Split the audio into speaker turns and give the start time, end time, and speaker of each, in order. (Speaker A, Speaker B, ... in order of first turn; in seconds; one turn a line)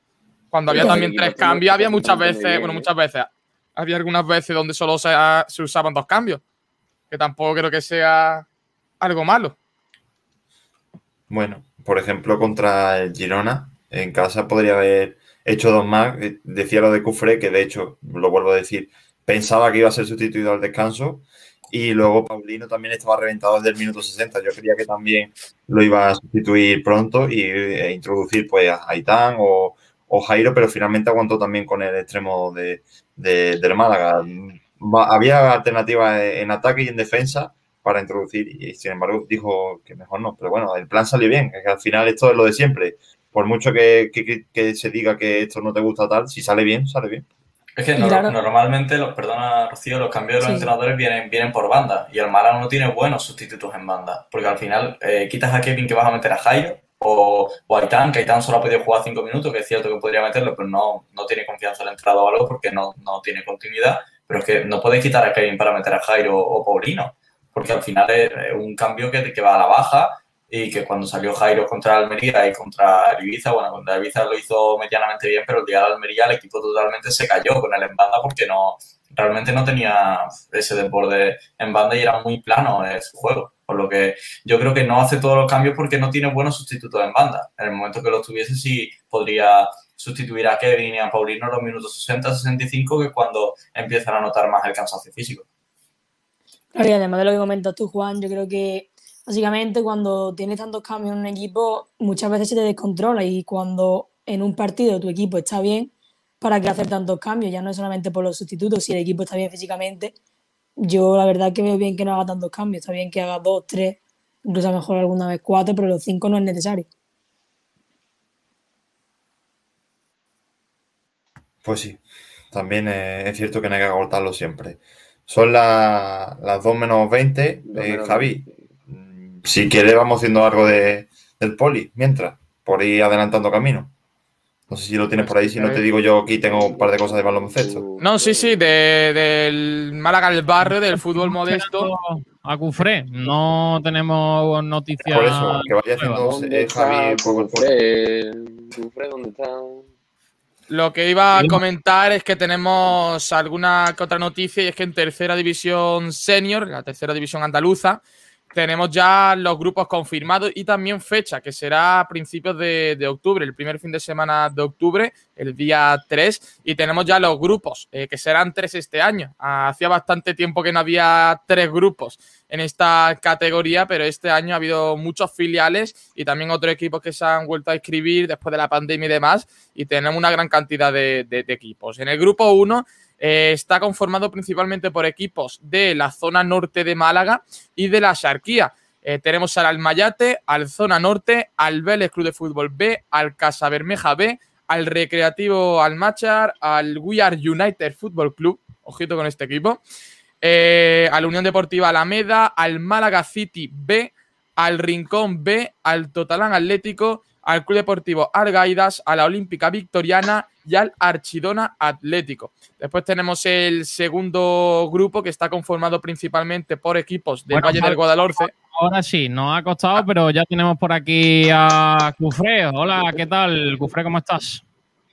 Speaker A: 0.5-6.4
Speaker B: 0.7-2.9
Speaker A: 7.1-8.4
Speaker A: 9.0-9.6
Speaker C: 11.3-47.3
Speaker D: 47.8-95.5
Speaker E: 48.0-48.3
Speaker E: 50.4-50.7
Speaker E: 96.8-110.1
Speaker E: 110.8-116.9
Speaker C: 121.6-122.0
Speaker C: 122.5-133.9
Speaker B: 127.7-128.6
Speaker C: 134.7-137.9
Speaker A: 135.2-135.8
Speaker B: 136.4-138.7
Speaker A: 138.0-141.9
Speaker F: 140.6-146.3
Speaker C: 145.1-147.7
Speaker B: 146.2-149.9
Speaker A: 150.7-158.0
Speaker A: 158.5-199.8
Speaker A: 200.4-218.5
Speaker F: 217.5-224.6